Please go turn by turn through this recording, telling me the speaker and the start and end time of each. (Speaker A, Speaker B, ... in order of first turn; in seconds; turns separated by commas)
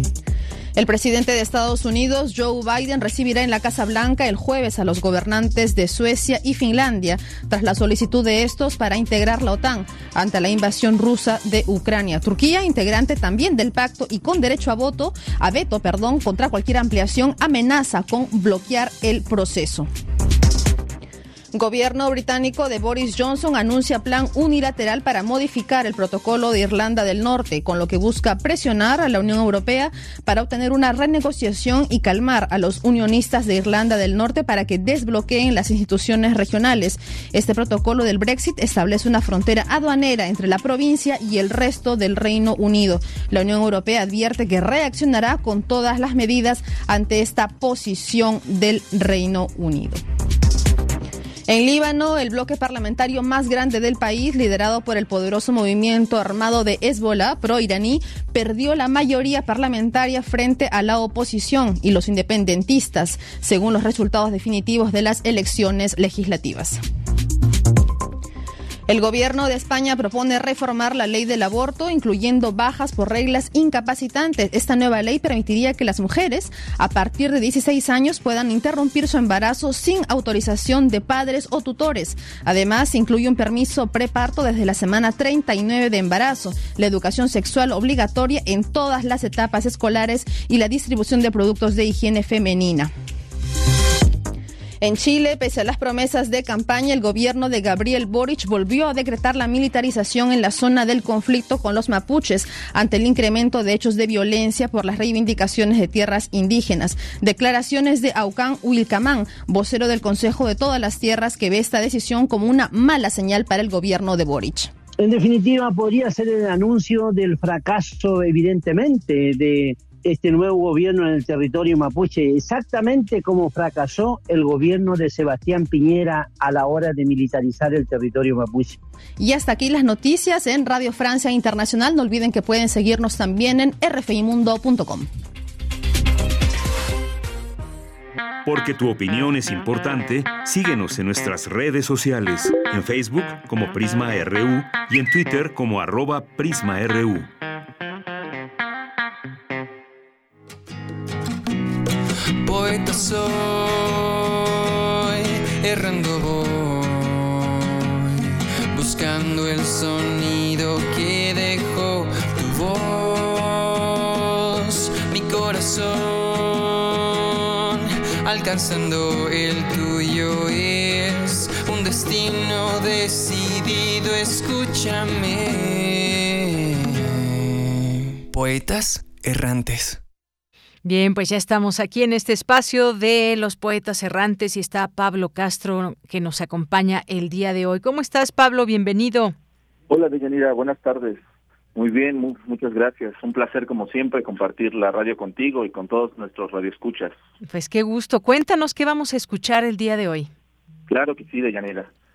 Speaker A: 0.8-19.9, Speaker A: 21.5-50.0, Speaker A: 51.5-66.8, Speaker A: 68.9-92.9, Speaker A: 94.8-114.7, Speaker B: 115.0-128.8, Speaker A: 129.2-135.1, Speaker C: 138.4-147.3, Speaker D: 152.4-158.2, Speaker D: 158.7-180.0, Speaker E: 180.8-189.3, Speaker F: 189.9-191.2, Speaker F: 191.8-197.1, Speaker E: 197.4-200.3, Speaker F: 200.9-201.9